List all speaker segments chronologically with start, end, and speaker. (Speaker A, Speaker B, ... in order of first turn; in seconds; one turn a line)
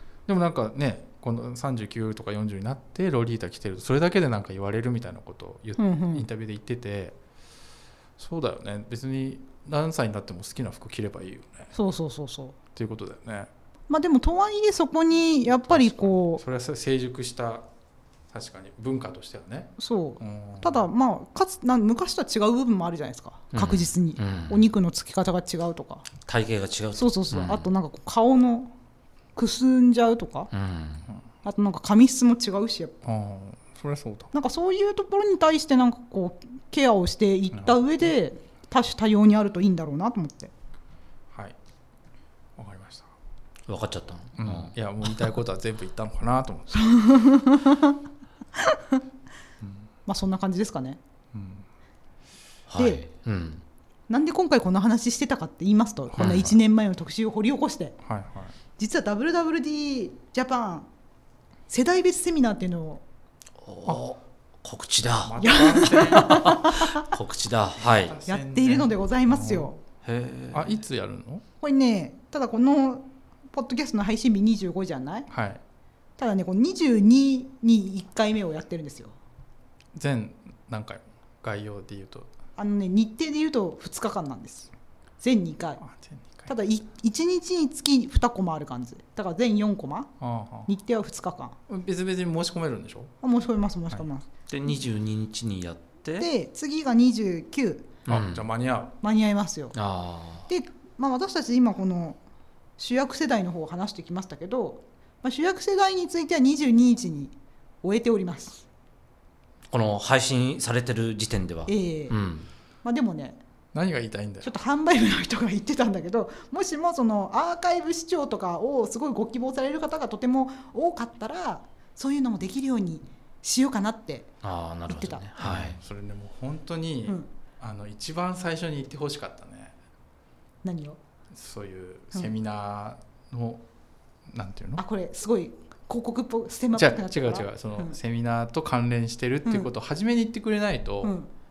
Speaker A: 0.3-7.2
Speaker B: 5.8-6.2
Speaker A: 8.2-11.7
Speaker B: 11.7-12.6
Speaker A: 12.7-13.5
Speaker B: 13.9-16.4
Speaker A: 15.7-17.6
Speaker A: 18.3-20.9
Speaker B: 19.8-26.0
Speaker C: 23.5-24.7
Speaker C: 26.2-27.7
Speaker B: 26.9-28.7
Speaker B: 29.4-30.5
Speaker C: 30.5-31.1
Speaker B: 31.4-32.9
Speaker A: 33.0-34.3
Speaker B: 34.3-40.5
Speaker A: 37.5-37.8
Speaker A: 42.6-43.1
Speaker C: 43.7-44.7
Speaker A: 44.4-46.9
Speaker B: 46.7-48.0
Speaker B: 48.6-49.0
Speaker A: 49.6-49.9
Speaker B: 50.1-51.0
Speaker A: 51.3-51.6
Speaker C: 52.7-53.6
Speaker B: 52.8-53.0
Speaker B: 54.1-58.0
Speaker A: 56.1-56.6
Speaker A: 58.0-58.5
Speaker B: 58.8-60.9
Speaker B: 61.7-63.0
Speaker C: 63.6-68.2
Speaker A: 65.2-66.6
Speaker B: 65.4-67.1
Speaker A: 67.8-69.7
Speaker B: 68.2-69.8
Speaker C: 70.0-70.8
Speaker A: 70.5-71.4
Speaker B: 71.6-75.3
Speaker A: 75.3-75.6
Speaker B: 76.2-79.1
Speaker A: 79.9-82.3
Speaker B: 82.6-85.8
Speaker A: 85.8-86.5
Speaker B: 86.5-90.1
Speaker A: 90.2-90.7
Speaker B: 90.7-91.5
Speaker A: 91.7-93.1
Speaker B: 93.2-94.2
Speaker C: 94.5-96.3
Speaker B: 96.2-97.9
Speaker C: 98.0-98.5
Speaker A: 98.1-99.0
Speaker B: 99.0-99.8
Speaker C: 99.7-100.5
Speaker B: 100.5-102.2
Speaker B: 102.8-108.6
Speaker C: 109.7-112.5
Speaker B: 111.7-112.2
Speaker B: 112.8-113.4
Speaker A: 113.7-114.5
Speaker B: 114.4-124.3
Speaker C: 124.4-125.8
Speaker B: 124.9-125.2
Speaker A: 125.4-129.7
Speaker B: 130.6-131.0
Speaker A: 131.3-133.6
Speaker A: 134.3-134.8
Speaker B: 134.8-137.9
Speaker A: 136.8-141.1
Speaker B: 141.0-141.3